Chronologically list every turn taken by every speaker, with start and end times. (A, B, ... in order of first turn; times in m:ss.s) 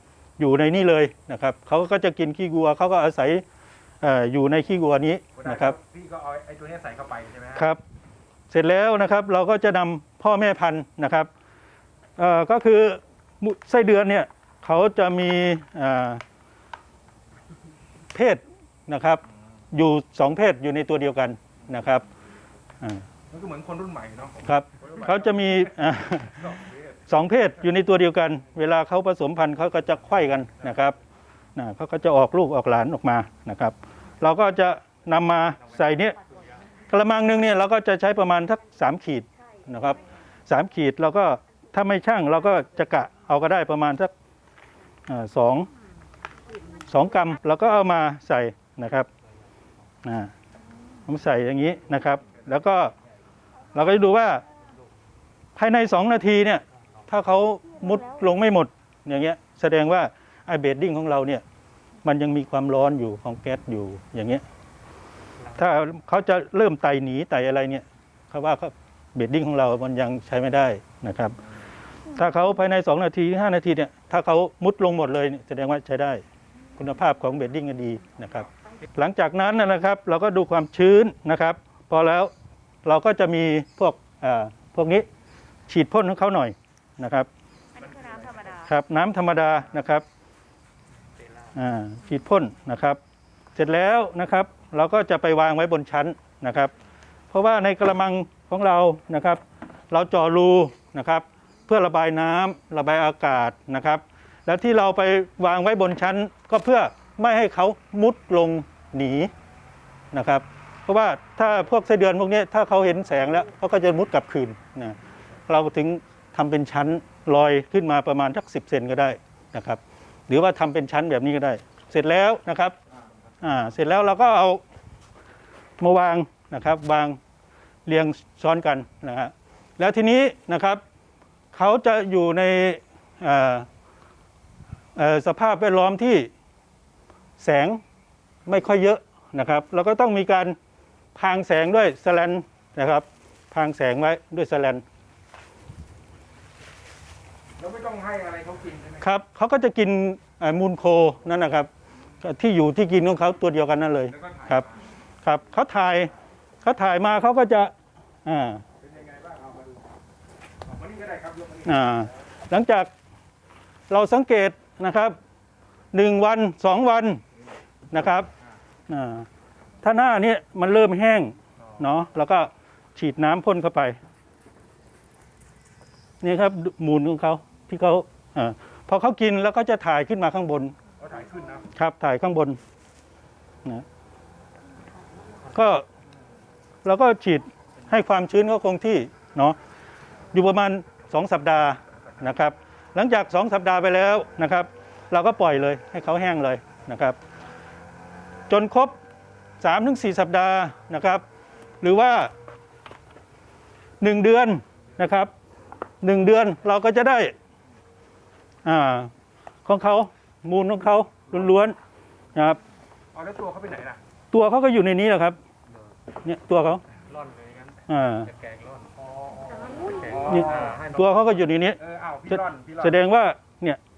0:00.4-0:03.4 A
0:04.0-0:05.8 A
0:05.4-0:07.7 B
0:07.6-0:07.8 A
0:08.5-0:11.3 A
0:12.2-0:16.2 A
0:18.1-0:22.0 A
0:23.3-0:27.7 B
0:24.4-0:26.5 A
0:27.1-0:31.0 A
0:31.6-0:36.2 A
0:36.9-0:44.1 A
0:45.1-0:45.7 A
0:46.9-0:49.1 A
0:50.0-0:50.3 A
0:51.1-0:52.9 A
0:52.2-0:52.6 B
0:53.7-0:54.4 A
0:55.6-1:01.4 A
1:02.0-1:04.4 A
1:05.6-1:11.4 A
1:12.1-1:16.2 A
1:16.8-1:22.3 A
1:22.8-1:25.1 A
1:25.7-1:27.3 A
1:27.8-1:28.7 C
1:27.9-1:28.5 B
1:28.6-1:30.0 A
1:31.5-1:33.0 A
1:33.6-1:36.7 A
1:37.3-1:49.3 A
1:50.1-1:55.0 A
1:55.5-2:02.8 A
2:03.4-2:04.6 A
2:05.8-2:07.2 A
2:07.9-2:10.8 A
2:11.5-2:13.7 A
2:15.0-2:16.3 A
2:17.4-2:17.8 A
2:18.5-2:20.6 A
2:21.2-2:24.8 A
2:27.6-2:29.1 B
2:29.0-2:31.7 A
2:32.2-2:34.7 A
2:34.1-2:34.9 B
2:35.2-2:36.1 A
2:36.6-2:37.7 A
2:38.2-2:38.6 A
2:38.8-2:39.8 B
2:40.6-2:42.1 B
2:41.6-2:42.9 A
2:43.9-2:45.2 A
2:45.9-2:47.2 A
2:47.9-2:48.3 A
2:48.9-2:49.3 A
2:49.8-2:54.0 A
2:51.6-2:51.9 B
2:56.2-3:00.8 A
3:01.0-3:01.7 B
3:01.8-3:02.6 A
3:05.5-3:05.8 A
3:06.8-3:09.6 A
3:10.3-3:17.2 A
3:18.5-3:19.0 A
3:19.6-3:21.2 A
3:21.8-3:22.3 A
3:24.0-3:25.3 A
3:26.0-3:27.4 A
3:28.6-3:29.1 A
3:29.7-3:31.8 A
3:33.1-3:34.0 B
3:34.3-3:35.4 A
3:36.2-3:36.8 A
3:37.9-3:38.3 A
3:39.0-3:43.0 B
3:39.5-3:40.6 C
3:40.3-3:43.8 A